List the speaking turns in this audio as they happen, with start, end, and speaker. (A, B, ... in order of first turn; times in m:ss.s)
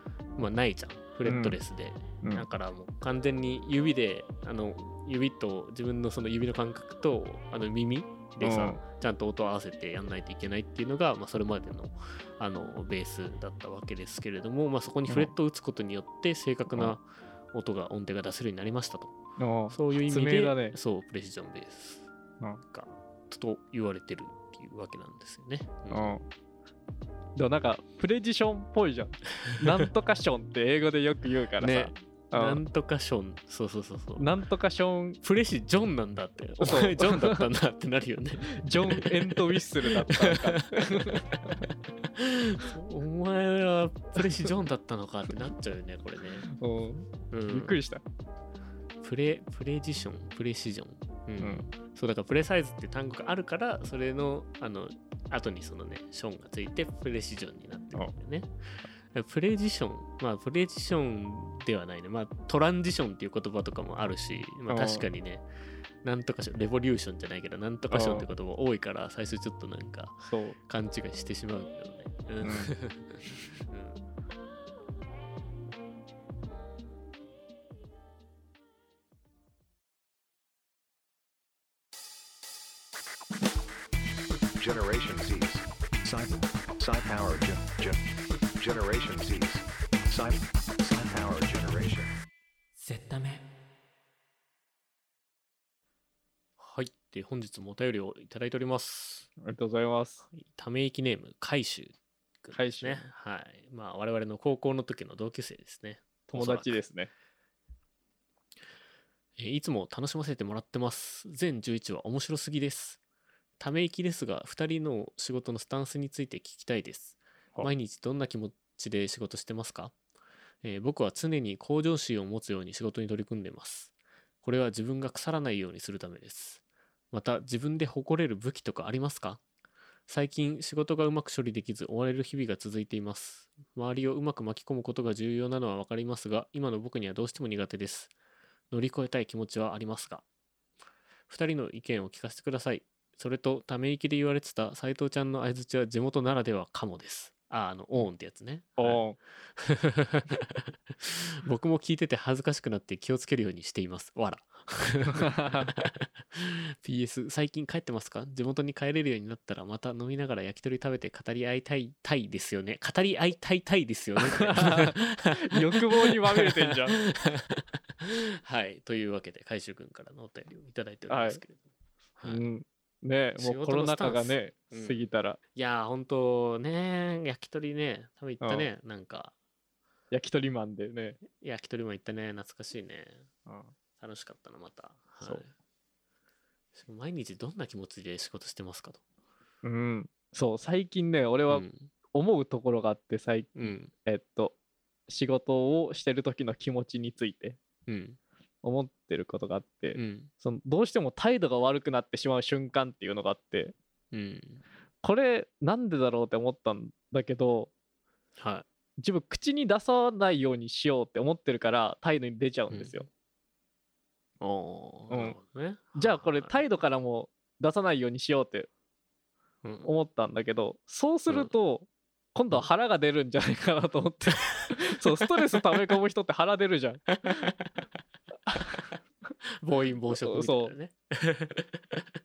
0:00.4-0:19.2 A
0:01.2-0:01.6 B
0:08.4-0:08.8 B
0:19.4-0:20.8 B
0:19.7-0:22.1 A
0:22.6-0:26.2 A
0:25.9-0:26.2 B
0:27.4-0:32.6 B
0:31.6-0:34.3 A
0:34.2-0:35.2 B
0:35.2-0:46.4 A
0:36.6-0:37.4 B
0:38.5-0:41.6 B
0:46.5-0:48.0 B
0:47.3-0:47.8 A
0:49.0-0:58.5 A
0:51.4-0:51.7 B
0:59.1-1:05.4 A
1:04.7-1:05.1 B
1:06.0-1:14.0 A
1:07.9-1:08.3 B
1:10.3-1:10.6 B
1:12.4-1:12.7 B
1:24.6-1:28.0 C
1:28.6-1:32.1 C
1:36.6-1:39.3 A
1:39.4-1:40.2 B
1:40.3-1:46.8 A
1:42.5-1:43.0 B
1:46.3-1:47.1 B
1:49.4-1:53.0 A
1:53.6-1:59.9 A
2:00.6-2:09.4 A
2:10.1-2:18.1 A
2:18.7-2:20.2 A
2:21.3-2:51.6 A
2:28.8-2:29.2 B
2:35.2-2:35.7 B
2:44.2-2:47.0 B
2:51.1-2:51.4 B
2:52.2-2:52.4 A
2:52.2-2:55.4 B
2:53.4-2:59.3 A
2:58.4-2:58.7 B
3:00.1-3:01.2 B
3:01.2-3:03.3 A
3:03.4-3:03.7 B
3:04.0-3:05.5 A
3:06.7-3:09.0 A
3:09.6-3:14.5 B
3:11.5-3:11.9 A
3:13.6-3:13.9 A
3:15.1-3:17.6 B
3:17.9-3:18.2 A
3:18.6-3:23.7 B
3:19.9-3:20.3 A
3:24.1-3:24.6 A
3:25.0-3:27.7 B
3:28.4-3:28.6 A
3:29.0-3:33.1 B
3:32.7-3:33.0 A
3:34.4-3:36.6 A
3:35.1-3:35.4 B
3:36.0-3:38.7 B
3:39.6-3:39.9 A
3:39.8-3:47.5 B
3:47.2-3:47.7 A
3:48.5-3:48.8 B
3:49.6-3:52.0 A
3:50.1-3:50.7 B